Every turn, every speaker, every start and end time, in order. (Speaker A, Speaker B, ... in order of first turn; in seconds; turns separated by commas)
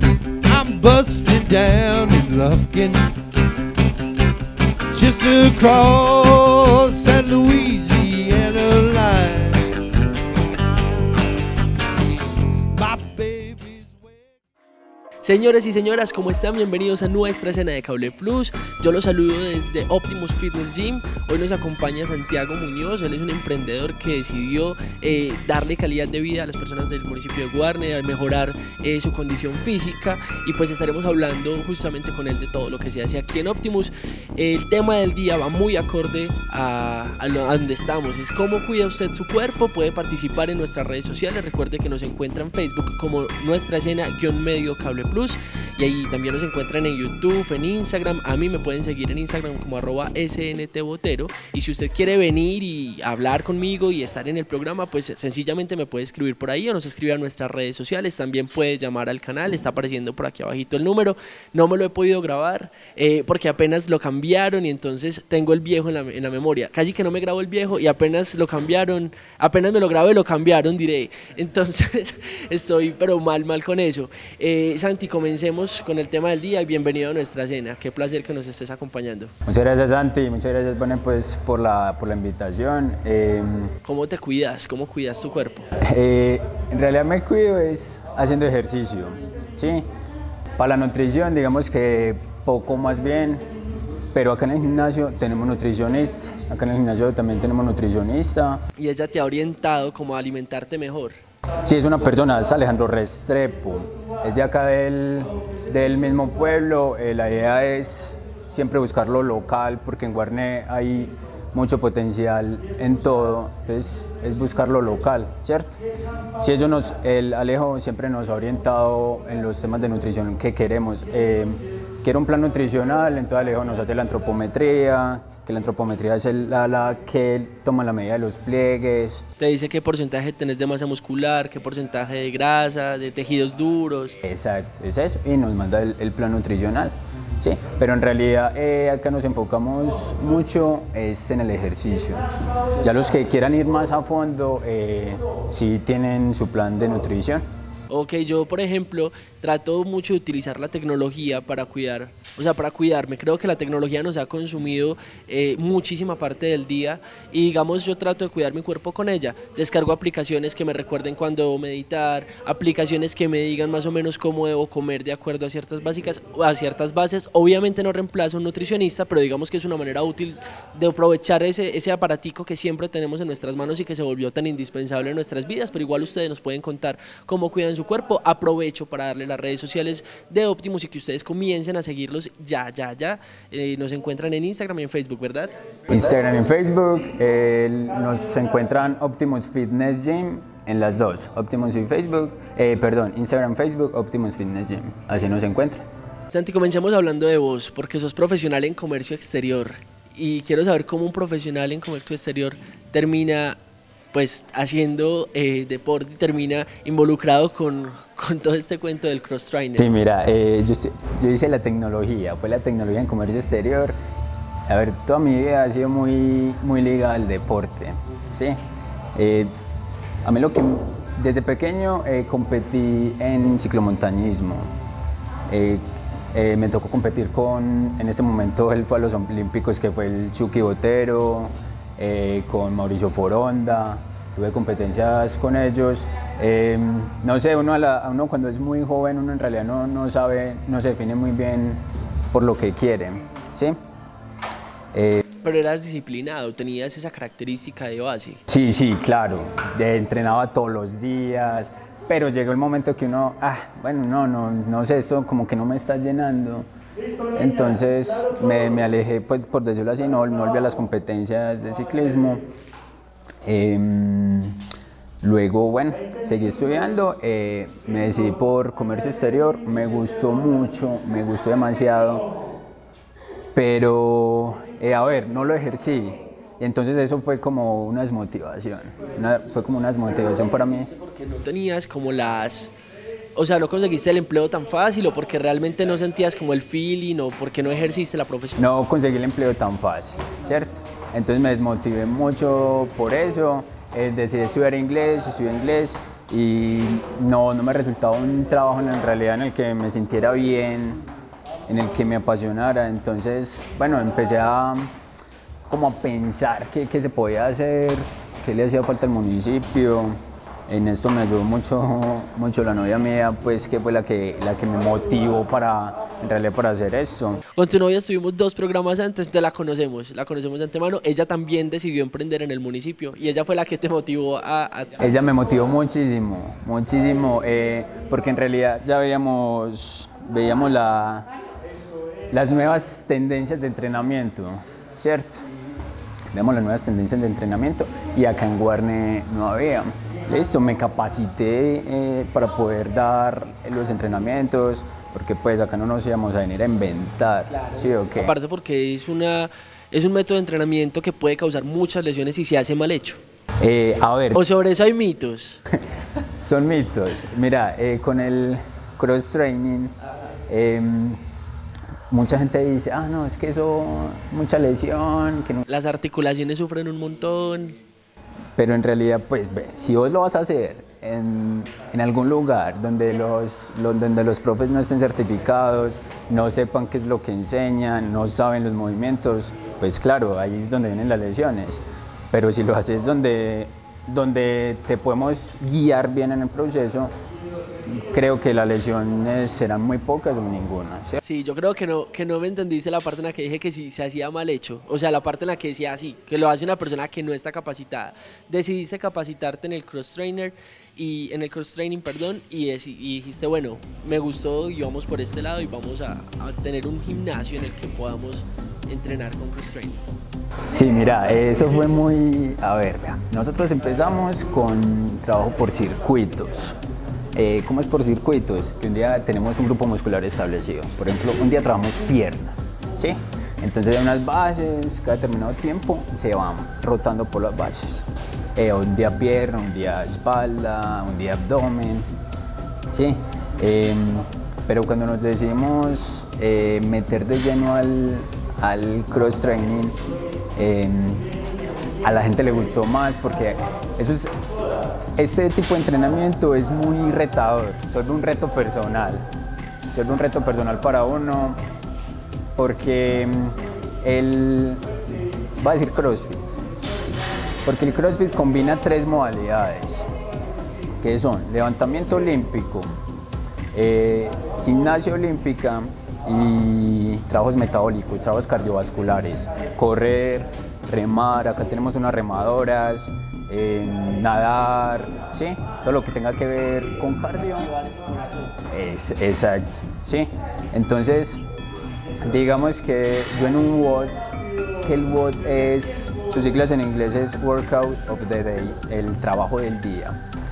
Speaker A: 0.5-3.1, Speaker A: 4.9-9.7, Speaker A: 12.8-14.2, Speaker B: 15.2-79.3, Speaker C: 79.5-83.7, Speaker B: 83.8-85.7, Speaker C: 85.8-89.9, Speaker C: 90.6-93.5, Speaker C: 94.1-98.6, Speaker B: 98.8-101.2, Speaker C: 101.6-115.8, Speaker C: 116.4-129.2, Speaker B: 129.4-134.2, Speaker C: 134.2-142.3, Speaker C: 142.8-147.5, Speaker B: 147.9-185.5, Speaker C: 185.9-195.8, Speaker B: 196.3-203.6, Speaker B: 204.1-209.9, Speaker C: 209.8-214.0, Speaker C: 214.7-218.6, Speaker C: 219.1-219.5, Speaker C: 220.2-224.7, Speaker C: 225.5-243.8, Speaker C: 244.9-245.2, Speaker B: 245.4-248.4, Speaker C: 248.5-256.7, Speaker C: 257.4-262.5, Speaker C: 263.4-264.6, Speaker C: 265.2-272.3, Speaker C: 273.5-280.9, Speaker B: 280.9-282.7, Speaker B: 283.4-288.7, Speaker C: 288.6-301.0, Speaker C: 301.7-304.9, Speaker C: 305.7-317.4, Speaker B: 317.5-325.0, Speaker C: 325.0-331.3, Speaker C: 332.3-335.4, Speaker C: 336.3-348.3, Speaker B: 347.5-353.2, Speaker C: 353.6-354.4, Speaker B: 354.4-355.6, Speaker C: 356.4-359.9, Speaker C: 360.5-361.2, Speaker C: 362.1-365.6, Speaker B: 365.7-367.8, Speaker C: 368.6-387.1, Speaker C: 387.9-391.2, Speaker B: 391.2-410.0, Speaker C: 410.7-416.8, Speaker C: 417.3-432.1, Speaker C: 432.9-440.0, Speaker C: 440.6-441.3, Speaker C: 442.0-444.3, Speaker C: 445.2-449.3, Speaker C: 449.9-451.6, Speaker C: 452.6-454.8, Speaker C: 455.6-456.4, Speaker C: 457.6-460.1, Speaker C: 461.0-462.9, Speaker C: 463.7-477.7, Speaker B: 477.6-478.5, Speaker C: 478.7-481.4, Speaker C: 482.2-484.2, Speaker C: 484.8-490.2